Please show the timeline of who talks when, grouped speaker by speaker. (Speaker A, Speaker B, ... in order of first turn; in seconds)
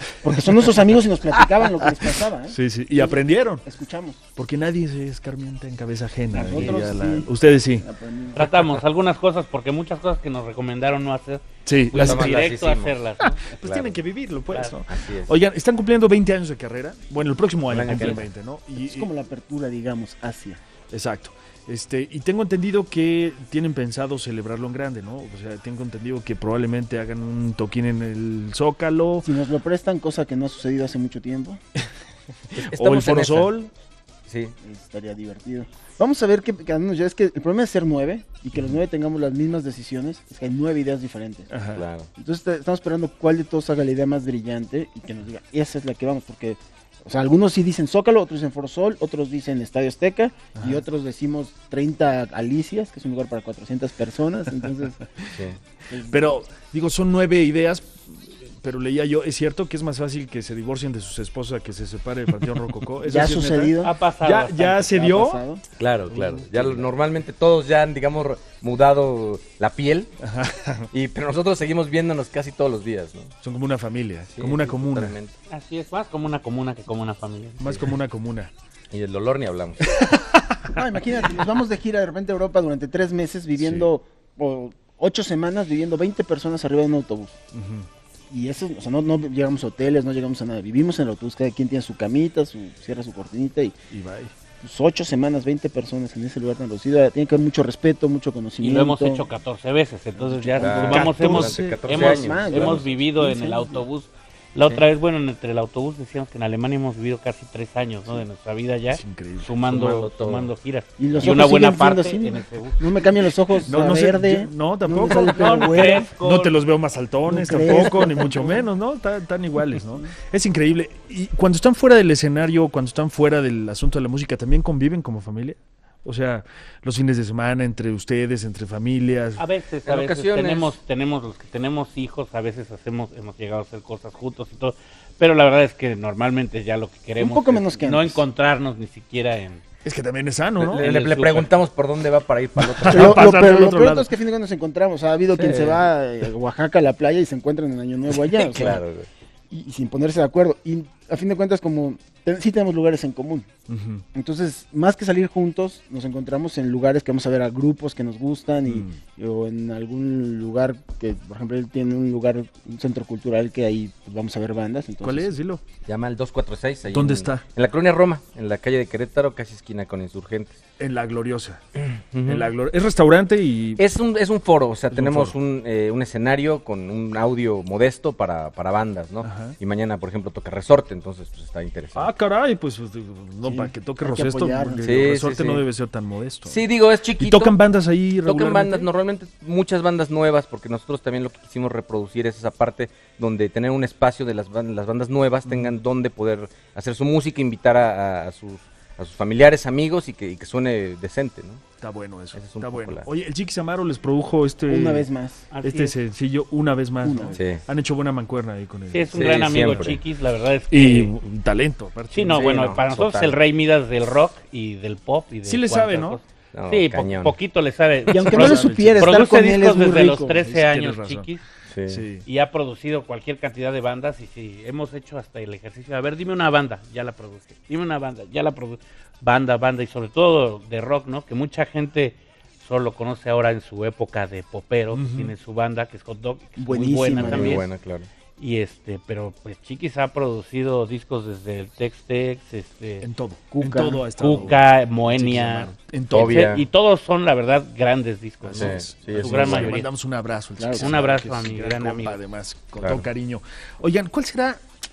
Speaker A: 0.2-4.2, 6.3-8.5, 18.8-20.6, 29.2-31.6, 34.6-41.5, 42.1-55.0, 55.9-56.3, 63.1-64.0, 64.7-65.6, 80.7-87.4, 88.3-93.7, 94.6-99.3, 100.3-100.8, 102.0-103.9, 111.0-116.1, 117.3-118.6, 119.8-120.1, 137.2-138.2, 142.9-148.8, 149.5-153.5, 154.2-165.3, 183.4-185.1, 204.7-205.5, 207.0-207.4, 218.1-220.4, 236.6-237.6, 243.5-244.5, 250.6-251.0
Speaker B: 2.5-3.6, 4.4-8.7, 11.7-12.5, 13.2-19.1, 20.9-29.3, 32.5-33.7, 41.5-41.9, 50.5-50.8, 56.1-65.4, 66.1-66.9, 70.2-70.9, 73.4-75.2, 77.6-78.5, 79.9-80.7, 87.5-87.9, 93.9-94.3, 100.4-102.4, 108.9-109.5, 113.6-129.4, 139.8-140.8, 142.6-144.1, 153.7-154.0, 158.7-159.0, 165.0-165.6, 166.9-167.5, 170.8-173.8, 174.9-175.3, 179.2-179.6, 181.9-186.6, 187.2-188.9, 195.5-195.8, 201.8-205.1, 205.6-210.0, 210.7-212.6, 215.4-216.2, 218.3-219.1, 220.3-221.3, 221.9-222.3, 234.9-235.3, 243.0-246.6, 248.4-254.6
Speaker C: 8.3-13.4, 14.5-14.8, 17.9-18.2, 63.8-64.8, 75.5-77.9, 98.6-113.0, 115.1-116.5, 129.4-139.6, 140.7-141.5, 205.5-205.9, 208.9-211.1, 212.1-221.4, 222.3-237.7, 238.4-243.1, 244.2-249.9, 250.8-252.2
Speaker D: 12.0-13.0, 13.6-14.0, 14.9-15.4, 17.7-18.3, 32.6-33.5, 34.3-34.6, 41.8-42.1, 55.3-55.6, 65.8-70.1, 70.9-73.3, 74.3-75.3, 78.9-79.9, 83.6-83.9, 100.6-102.8, 109.6-110.5, 129.8-130.8, 140.6-143.2, 145.3-145.9, 148.4-149.1, 165.9-170.6, 172.1-172.5, 173.8-182.1, 184.8-185.7, 186.5-187.6, 188.3-201.6, 202.3-203.1, 207.3-207.6, 209.1-210.0, 212.3-213.4, 216.5-217.4, 221.7-222.0, 237.2-238.1, 246.1-246.7, 248.6-249.8, 252.8-253.1